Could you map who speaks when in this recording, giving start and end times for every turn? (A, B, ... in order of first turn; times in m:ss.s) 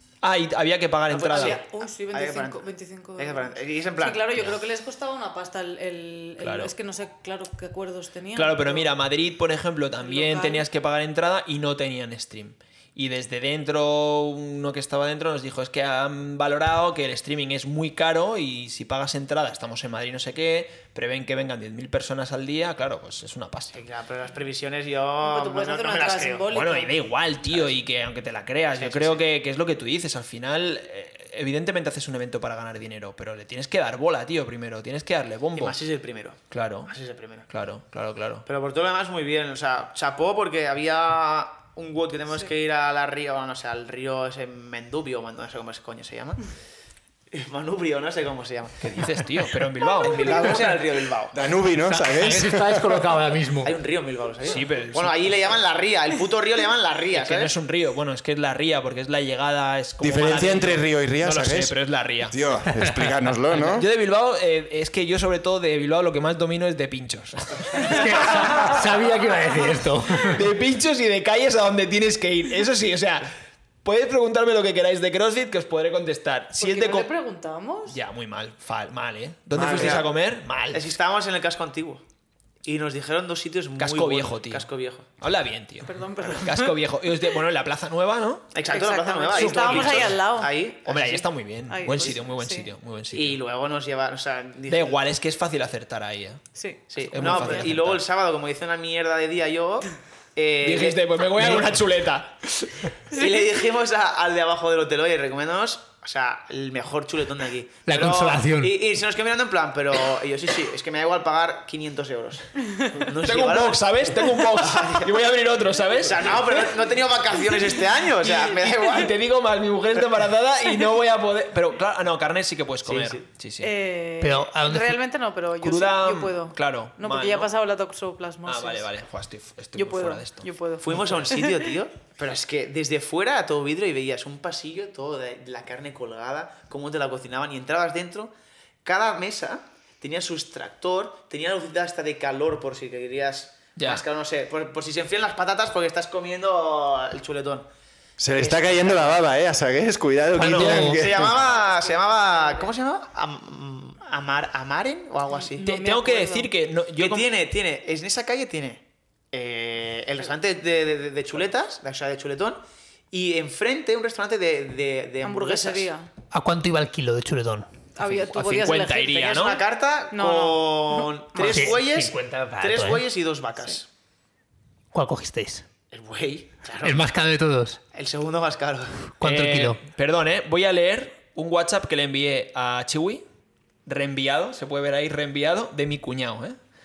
0:00.2-0:01.6 A
0:01.1-0:04.2 B
0:01.3-0:08.9 C
0:06.4-0:06.7 A
0:08.3-0:23.8 A
0:10.0-0:10.6 C
0:23.7-0:26.5 B
0:25.2-0:27.0 C
0:26.5-0:35.8 A
0:28.8-0:29.2 B
0:35.6-0:37.5 B
0:36.5-0:36.9 A
0:37.5-0:38.4 A
0:38.4-0:46.4 B
0:47.3-0:49.1 B
0:48.8-0:50.6 A
0:50.0-0:51.4 B
0:50.3-0:50.7 D
0:51.3-0:53.2 E
0:51.9-0:53.8 D
0:53.6-0:57.5 B
0:54.4-0:55.4 A
0:57.1-1:02.3 A
1:00.0-1:01.7 E
1:02.3-1:03.9 E
1:03.5-1:08.6 A
1:07.8-1:10.4 D
1:10.2-1:13.3 A
1:13.8-1:17.1 A
1:16.6-1:18.0 C
1:17.9-1:20.9 A
1:19.5-1:20.0 E
1:19.7-1:20.1 B
1:20.7-1:22.0 B
1:22.6-1:25.1 B
1:23.8-1:24.7 A
1:25.2-1:28.5 A
1:25.8-1:26.7 C
1:28.5-1:31.2 B
1:28.7-1:30.5 C
1:29.3-1:33.4 A
1:31.7-1:32.7 C
1:33.1-1:35.0 B
1:34.7-1:36.4 A
1:36.6-1:37.7 C
1:36.9-1:41.8 B
1:37.1-1:38.0 A
1:40.6-1:42.9 A
1:43.1-1:55.1 B
1:47.8-1:48.8 D
1:53.2-1:56.7 A
1:56.0-1:59.1 B
1:58.2-2:03.7 A
2:02.8-2:03.2 B
2:03.6-2:08.8 C
2:04.2-2:05.0 D
2:05.6-2:07.5 A
2:08.4-2:10.5 A
2:09.8-2:11.6 C
2:10.8-2:18.3 B
2:18.8-2:27.7 B
2:23.8-2:24.0 A
2:28.2-2:31.3 E
2:28.4-2:29.2 B
2:30.4-2:31.2 D
2:30.4-2:30.9 A
2:30.9-2:35.7 B
2:31.2-2:32.7 C
2:35.4-2:36.5 C
2:35.6-2:37.3 A
2:37.0-2:42.6 B
2:43.1-2:45.9 B
2:45.2-2:46.1 C
2:46.3-2:47.7 D
2:48.0-2:49.2 C
2:48.0-2:49.6 A
2:49.0-2:53.9 B
2:50.1-2:51.8 C
2:51.4-2:53.0 D
2:54.9-2:55.6 D
2:55.9-2:57.1 B
2:56.8-2:57.8 D
2:57.9-2:59.1 B
2:59.2-2:59.8 D
2:59.2-3:03.2 A
3:03.8-3:06.6 A